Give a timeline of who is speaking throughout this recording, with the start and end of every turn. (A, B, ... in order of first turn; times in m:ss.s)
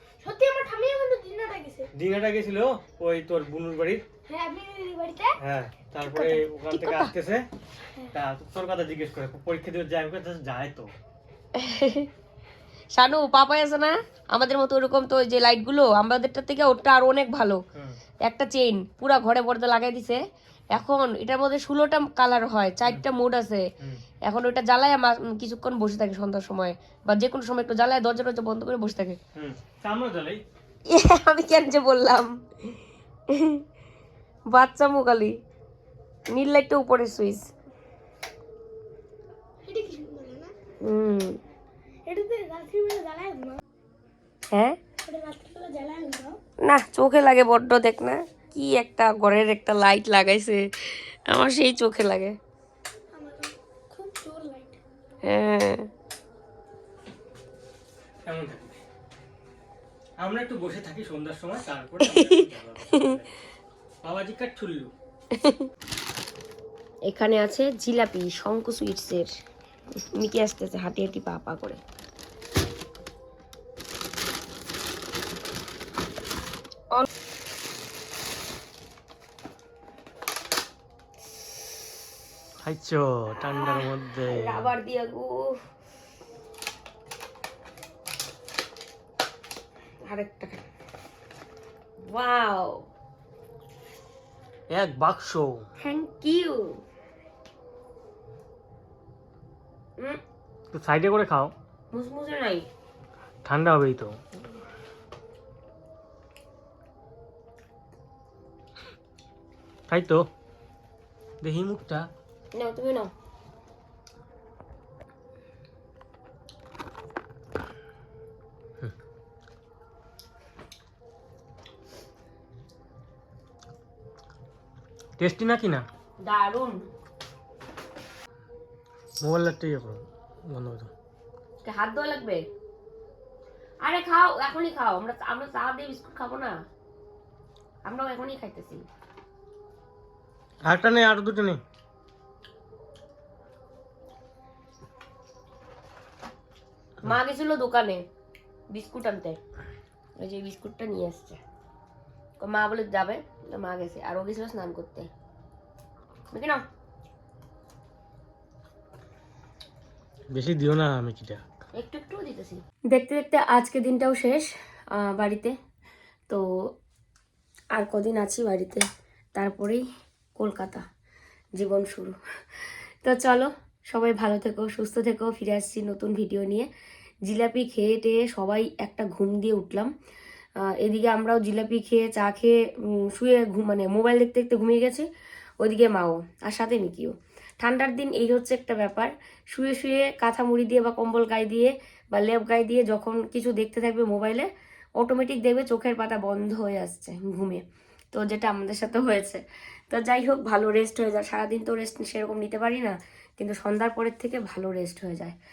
0:00.2-0:01.9 A
0:01.9-0:04.0 B
0:04.3-0:05.4 A
0:05.4-0:07.4 B
0:06.0-0:07.1 A
0:08.1-0:10.9 B
0:11.5-0:12.1 C
0:13.0-0:17.6 C
0:18.2-0:20.2 C
0:20.7-0:23.6 C
0:24.2-0:29.2 C
0:29.3-0:30.4 B
0:30.9-0:32.4 C
0:33.3-0:33.6 C
0:34.5-0:35.4 C
0:36.3-0:37.5 C
0:39.6-0:40.5 A
0:40.8-0:41.4 C
0:42.0-0:43.6 A
0:44.5-0:44.8 C
0:45.0-0:46.4 A
0:46.6-0:52.4 C
0:53.1-0:54.8 A
0:55.2-0:55.9 C
0:58.2-0:58.8 B
1:00.2-1:03.3 B
1:02.0-1:03.1 C
1:04.0-1:04.9 B
1:05.3-1:05.7 C
1:07.1-1:09.3 C
1:10.1-1:11.8 C
1:22.6-1:24.7 B
1:23.5-1:25.6 C
1:30.0-1:30.6 C
1:32.0-1:32.8 C
1:34.7-1:35.6 B
1:35.8-1:36.8 C
1:40.7-1:41.5 B
1:41.9-1:42.7 C
1:43.4-1:44.2 B
1:49.9-1:50.3 B
1:51.4-1:52.1 B
1:52.5-1:53.1 C
2:05.2-2:05.9 B
2:06.2-2:06.9 C
2:09.2-2:10.9 B
2:11.6-2:12.5 C
2:13.8-2:16.6 C
2:17.8-2:18.8 C
2:20.6-2:21.6 B
2:27.0-2:28.0 C
2:28.7-2:29.4 C
2:30.2-2:31.4 C
2:32.4-2:35.1 C
2:36.3-2:36.6 C
2:40.3-2:41.4 B
2:41.8-2:45.6 C
2:47.7-2:49.8 C
2:50.4-2:50.8 C
2:51.6-2:52.2 C
2:53.0-2:56.7 C
2:57.2-2:59.9 C
3:00.6-3:05.1 C
3:05.6-3:25.4 C